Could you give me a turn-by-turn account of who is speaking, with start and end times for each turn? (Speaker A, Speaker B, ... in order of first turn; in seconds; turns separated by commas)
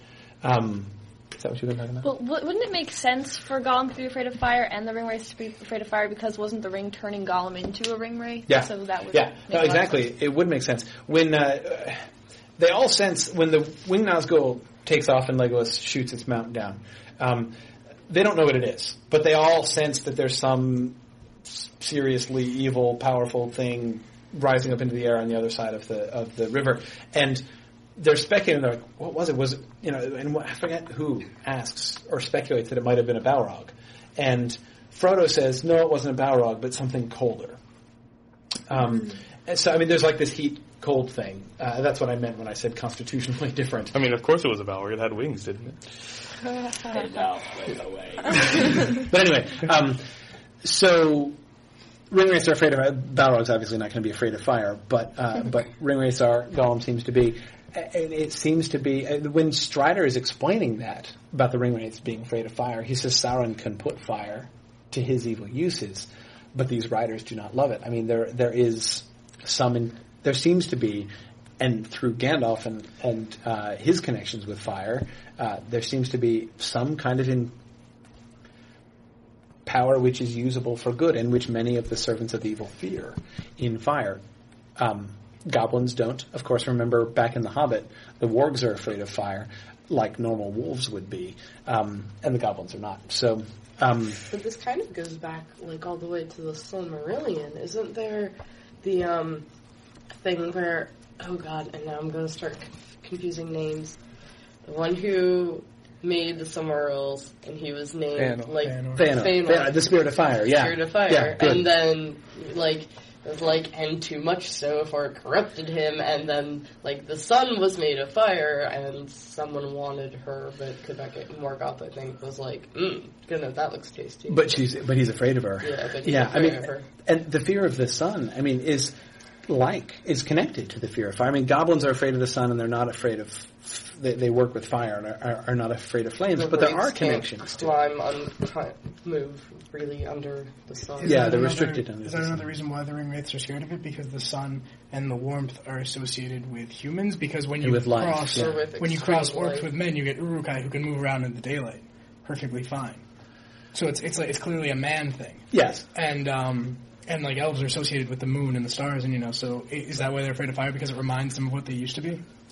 Speaker A: 0.4-2.1, Speaker B: 2.0-10.0, Speaker A: 8.5-12.0, Speaker A: 12.6-17.6, Speaker A: 18.1-21.0, Speaker A: 21.5-27.4, Speaker A: 27.9-37.6, Speaker A: 38.7-43.9, Speaker C: 43.9-45.8, Speaker C: 46.9-47.6, Speaker A: 47.4-50.0, Speaker A: 50.6-51.3, Speaker A: 52.1-77.5, Speaker A: 79.6-84.2, Speaker A: 84.8-94.2, Speaker D: 94.3-99.4, Speaker D: 100.2-104.0, Speaker D: 104.6-109.8, Speaker C: 108.2-108.5, Speaker E: 108.6-109.1, Speaker A: 109.0-111.7, Speaker D: 110.4-124.6, Speaker A: 124.3-137.7, Speaker D: 125.6-126.8, Speaker D: 136.3-141.3, Speaker E: 141.0-153.0, Speaker A: 141.0-142.4, Speaker A: 147.6-148.6, Speaker D: 148.3-149.7, Speaker E: 153.7-162.2, Speaker A: 155.5-155.8